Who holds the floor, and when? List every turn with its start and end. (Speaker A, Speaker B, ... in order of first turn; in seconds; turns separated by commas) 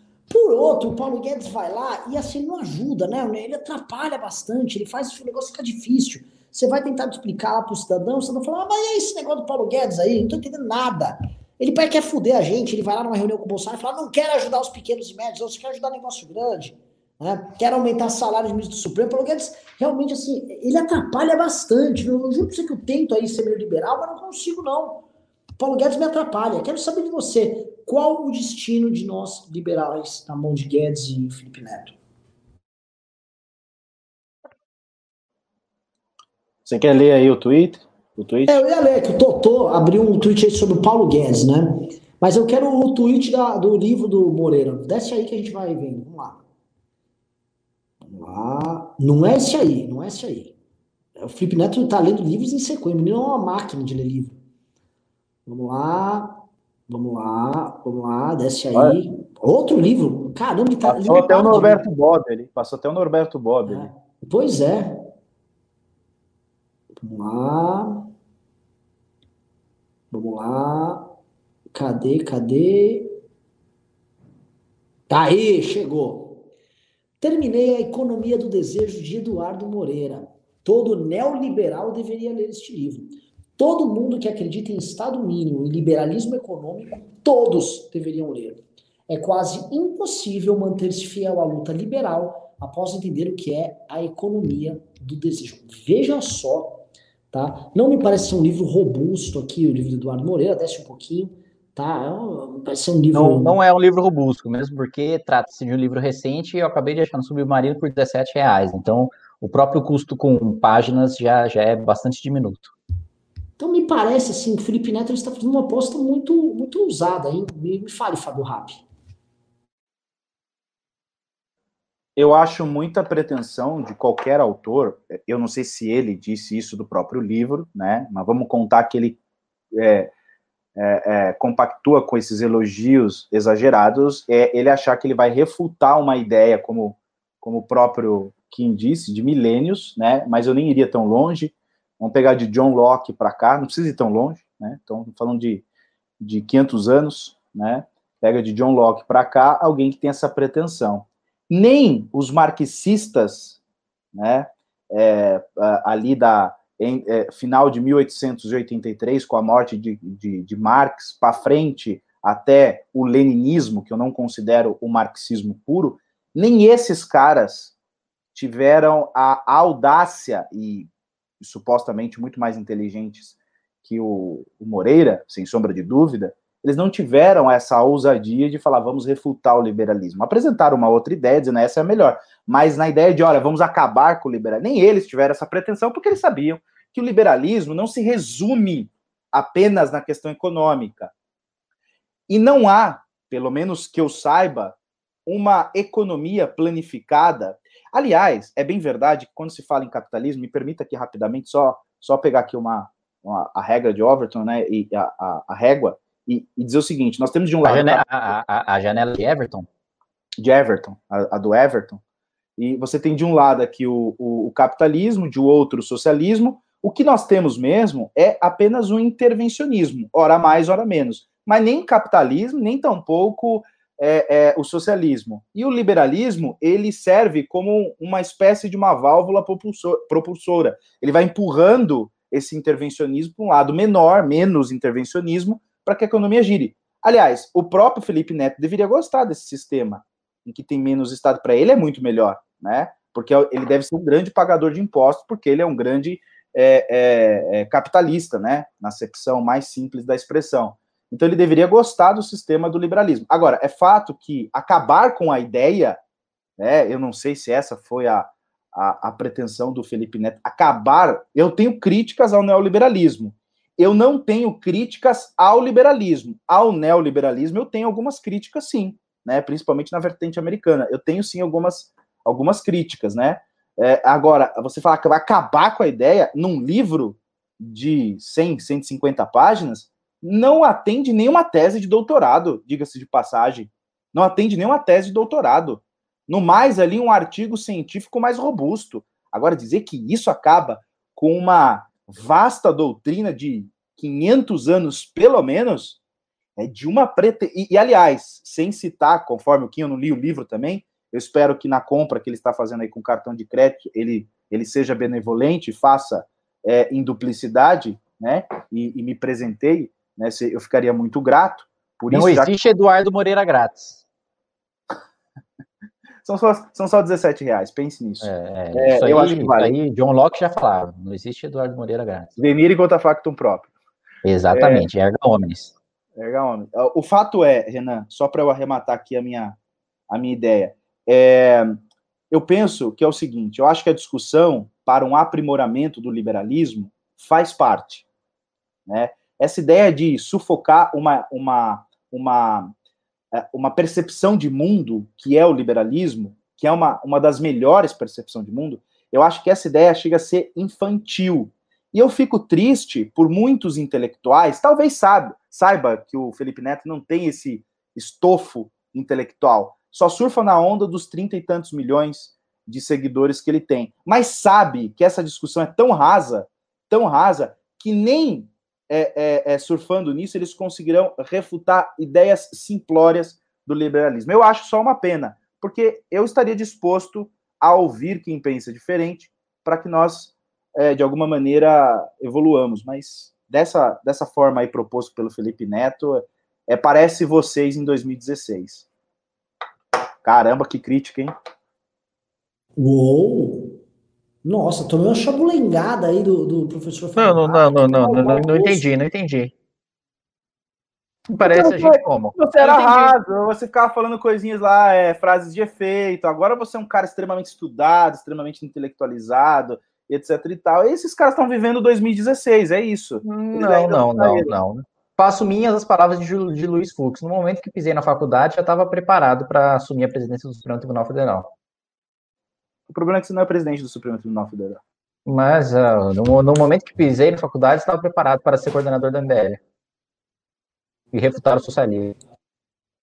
Speaker A: 0.3-25.0, Speaker A: 25.6-32.0, Speaker B: 36.6-38.6, Speaker A: 38.5-46.4, Speaker A: 48.0-50.5, Speaker A: 51.2-54.4, Speaker A: 55.5-61.8, Speaker B: 60.9-63.9, Speaker A: 63.7-65.1, Speaker A: 67.0-68.1, Speaker A: 70.1-71.1, Speaker A: 71.7-73.1, Speaker A: 75.1-76.4, Speaker A: 77.2-103.6, Speaker C: 103.1-112.7, Speaker A: 113.6-118.8, Speaker B: 122.2-129.2, Speaker B: 129.7-130.1, Speaker B: 130.8-145.6, Speaker B: 146.2-153.6, Speaker B: 154.1-167.7, Speaker B: 168.3-191.1, Speaker B: 192.3-208.0, Speaker C: 207.6-209.7, Speaker B: 210.4-212.0, Speaker B: 212.6-256.0, Speaker B: 256.6-296.0, Speaker B: 296.6-312.5, Speaker C: 312.1-314.0, Speaker B: 316.2-319.7, Speaker C: 318.2-322.4, Speaker B: 322.4-323.7, Speaker C: 324.2-325.7, Speaker B: 324.5-324.9, Speaker B: 326.1-329.6, Speaker B: 330.1-338.1, Speaker B: 338.9-342.7, Speaker B: 343.3-388.9, Speaker B: 390.2-391.3, Speaker A: 392.8-393.8, Speaker A: 394.4-398.9, Speaker C: 397.1-399.5, Speaker C: 401.3-403.1, Speaker B: 401.4-414.5, Speaker C: 413.2-421.5, Speaker B: 422.9-424.8, Speaker C: 425.2-429.6, Speaker C: 431.1-432.1